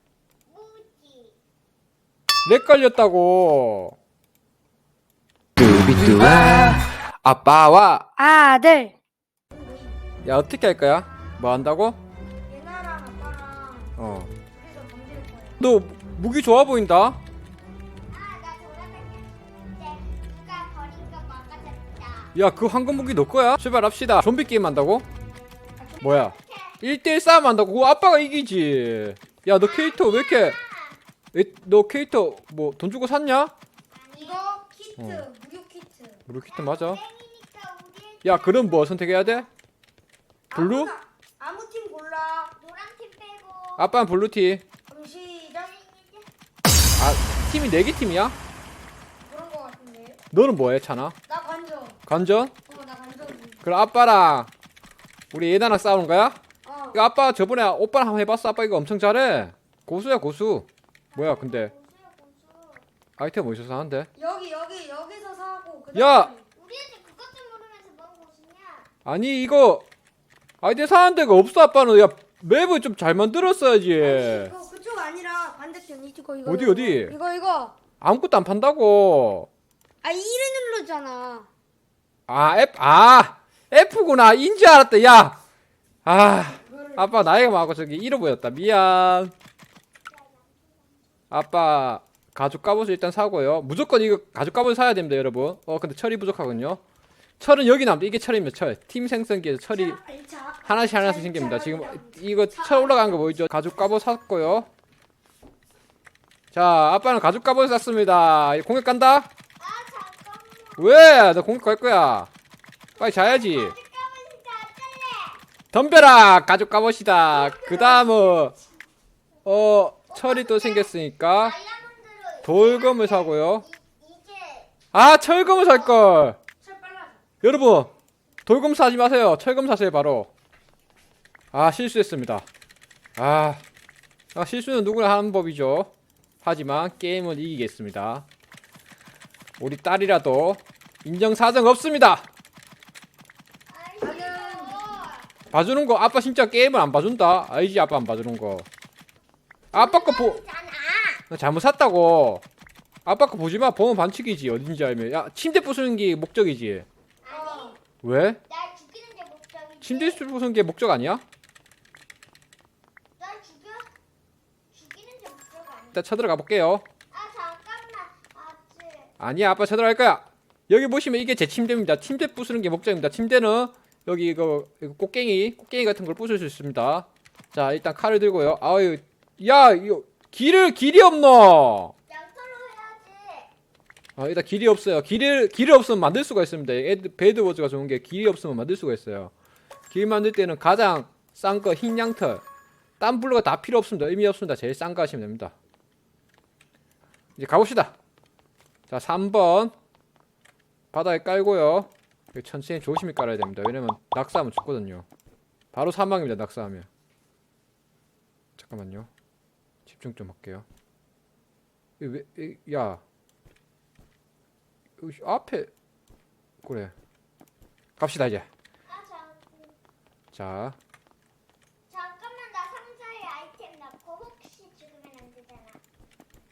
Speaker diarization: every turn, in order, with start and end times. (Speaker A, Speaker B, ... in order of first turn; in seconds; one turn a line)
Speaker A: 0.5-1.4
Speaker B: 2.5-4.0
Speaker B: 5.6-8.1
Speaker C: 8.2-8.9
Speaker C: 9.5-10.0
Speaker B: 10.2-12.0
Speaker A: 10.9-11.6
Speaker C: 12.5-14.0
Speaker B: 14.0-14.3
Speaker C: 14.5-15.6
Speaker B: 15.6-17.2
Speaker A: 18.1-22.4
Speaker B: 22.3-25.1
Speaker A: 26.0-26.8
Speaker B: 26.0-30.6
Speaker A: 29.6-31.0
Speaker B: 31.3-33.5
Speaker A: 33.9-34.5
Speaker C: 34.2-36.2
Speaker B: 35.0-35.2
Speaker B: 36.3-37.0
Speaker A: 36.5-39.5
Speaker B: 38.2-39.5
Speaker C: 40.5-42.5
Speaker B: 40.5-40.9
Speaker A: 42.6-43.9
Speaker B: 43.8-44.6
Speaker C: 44.9-45.7
Speaker A: 45.5-46.3
Speaker B: 47.0-48.4
Speaker C: 49.2-50.2
Speaker B: 50.3-51.2
Speaker C: 51.3-52.0
Speaker B: 52.1-52.5
Speaker C: 52.7-53.6
Speaker B: 53.6-54.5
Speaker B: 55.3-56.4
Speaker C: 56.6-57.0
Speaker B: 56.9-61.7
Speaker A: 61.1-62.9
Speaker B: 63.2-64.1
Speaker C: 64.2-66.4
Speaker B: 66.0-66.3
Speaker A: 66.5-68.9
Speaker B: 69.0-69.9
Speaker B: 70.6-74.5
Speaker C: 74.0-77.8
Speaker B: 76.5-77.2
Speaker B: 78.0-79.5
Speaker C: 80.0-81.5
Speaker B: 82.3-85.4
Speaker B: 86.0-89.3
Speaker C: 86.6-87.1
Speaker A: 90.1-91.1
Speaker B: 91.3-96.8
Speaker B: 97.4-100.0
Speaker C: 99.7-103.2
Speaker B: 100.7-104.7
Speaker B: 106.5-109.3
Speaker A: 109.6-111.0
Speaker B: 110.8-112.3
Speaker A: 113.0-115.4
Speaker B: 113.0-113.8
Speaker B: 115.7-118.5
Speaker A: 117.3-118.6
Speaker B: 119.5-121.6
Speaker A: 120.1-124.7
Speaker B: 122.5-123.7
Speaker B: 124.9-126.4
Speaker A: 125.5-126.0
Speaker C: 126.6-127.2
Speaker B: 127.4-127.9
Speaker B: 128.5-130.3
Speaker B: 131.5-132.4
Speaker B: 133.2-133.6
Speaker B: 134.3-135.9
Speaker B: 136.4-138.3
Speaker B: 139.6-142.3
Speaker A: 143.7-145.3
Speaker C: 144.0-144.8
Speaker B: 145.5-148.7
Speaker B: 149.7-150.4
Speaker A: 149.7-151.3
Speaker B: 151.3-152.4
Speaker B: 153.1-156.9
Speaker A: 157.2-157.8
Speaker C: 157.3-157.8
Speaker B: 158.0-158.4
Speaker A: 158.5-160.2
Speaker B: 159.8-161.2
Speaker A: 163.2-163.9
Speaker A: 164.7-166.0
Speaker B: 165.9-166.8
Speaker A: 167.1-169.1
Speaker B: 169.2-181.9
Speaker A: 182.1-183.5
Speaker B: 184.2-189.3
Speaker B: 189.9-192.4
Speaker B: 193.0-195.5
Speaker B: 197.4-197.9
Speaker B: 198.9-199.7
Speaker B: 200.9-205.1
Speaker B: 205.7-206.9
Speaker B: 208.6-209.1
Speaker B: 209.9-210.7
Speaker B: 212.0-213.0
Speaker B: 215.0-215.7
Speaker B: 216.6-216.9
Speaker B: 218.0-218.5
Speaker A: 218.9-219.8
Speaker B: 220.3-220.8
Speaker A: 221.9-225.8